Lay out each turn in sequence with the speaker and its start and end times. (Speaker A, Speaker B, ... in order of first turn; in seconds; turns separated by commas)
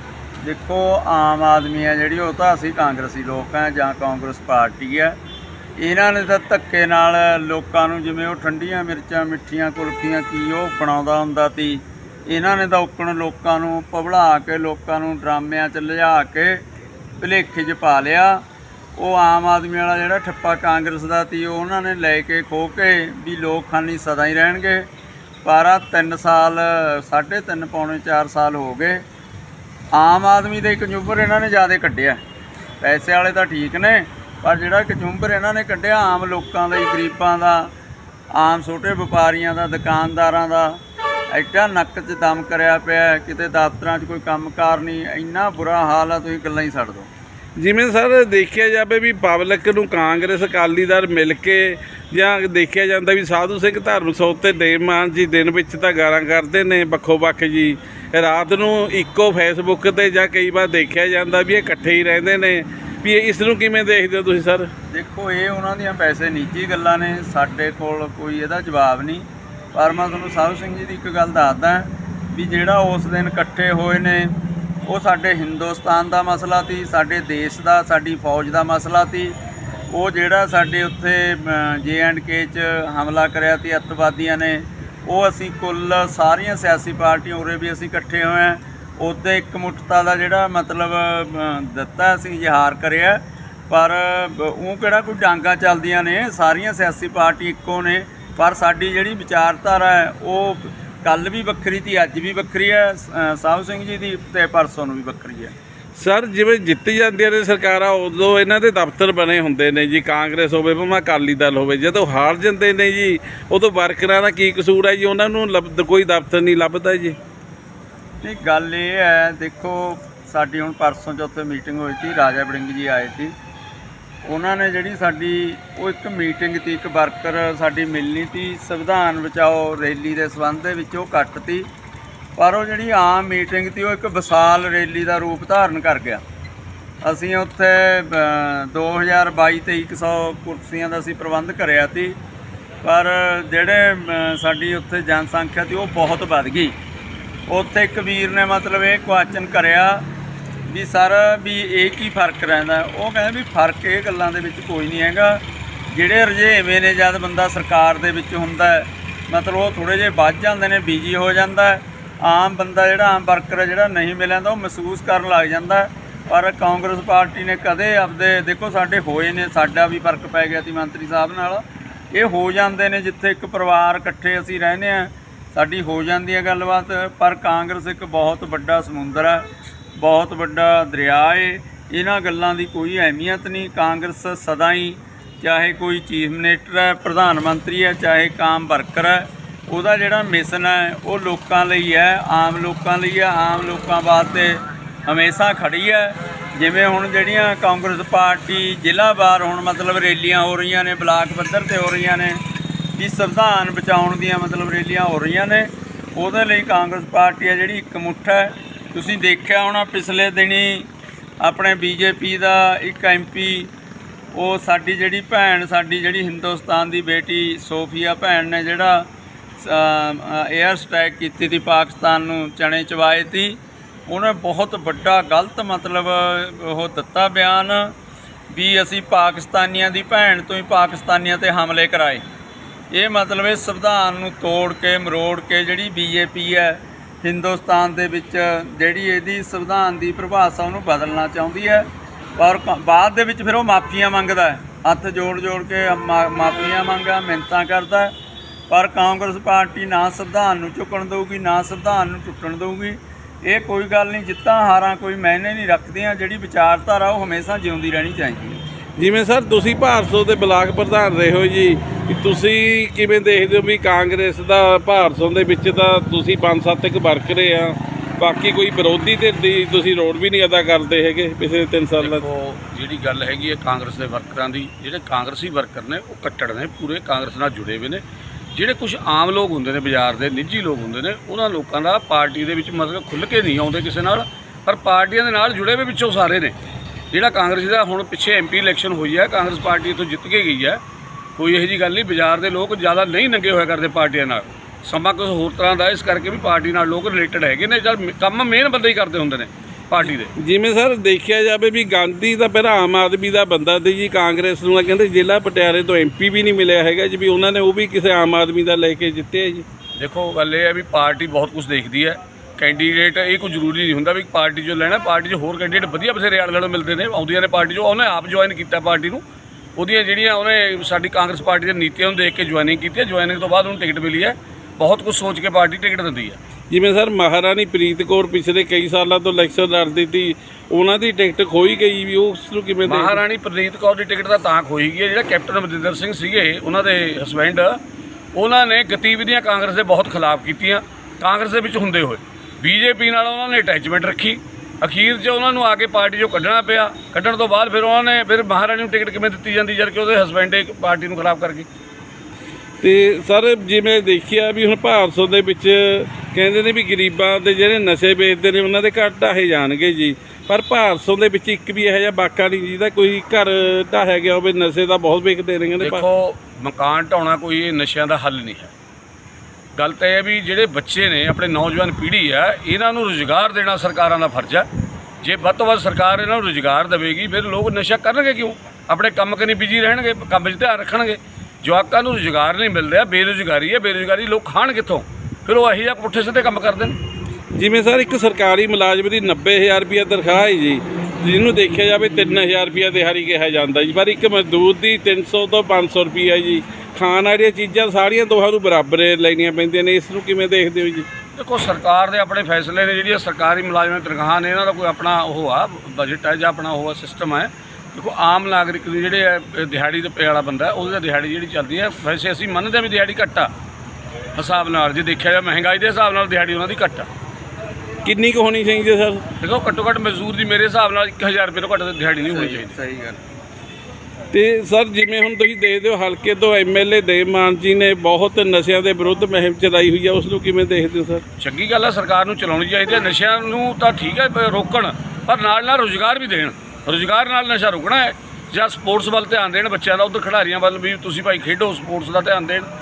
Speaker A: 0.4-5.2, Speaker A: 5.8-16.6, Speaker A: 17.2-18.4, Speaker A: 18.9-24.9, Speaker A: 25.4-29.0, Speaker A: 29.9-32.2, Speaker A: 32.8-37.7, Speaker A: 38.4-40.8, Speaker A: 41.3-47.1, Speaker B: 47.6-64.7, Speaker A: 64.9-74.3, Speaker A: 74.8-79.3, Speaker A: 79.9-105.5, Speaker B: 106.0-117.2, Speaker A: 118.2-123.3, Speaker A: 124.2-131.7, Speaker A: 132.4-136.2, Speaker A: 137.0-142.2, Speaker A: 142.8-146.7, Speaker A: 147.5-150.0, Speaker A: 150.7-202.4, Speaker A: 202.9-210.9, Speaker A: 211.4-213.7, Speaker A: 214.3-219.1, Speaker A: 219.6-223.6, Speaker A: 224.1-227.9, Speaker A: 228.5-232.2, Speaker A: 232.9-248.1, Speaker A: 248.7-258.6, Speaker B: 259.0-272.2, Speaker C: 272.0-278.0, Speaker C: 278.5-286.6, Speaker C: 287.1-290.8, Speaker C: 291.4-300.3, Speaker B: 300.4-309.7, Speaker C: 310.0-319.2, Speaker C: 319.8-326.4, Speaker B: 326.7-333.2, Speaker C: 332.9-337.8, Speaker C: 338.4-351.7, Speaker B: 352.8-366.1, Speaker C: 365.8-368.7, Speaker C: 369.8-374.7, Speaker C: 375.2-387.0, Speaker B: 387.6-401.1, Speaker C: 401.4-413.5, Speaker C: 414.4-417.1, Speaker B: 418.1-419.2, Speaker C: 419.4-422.8, Speaker A: 422.3-423.2, Speaker B: 424.3-431.2, Speaker C: 431.4-442.7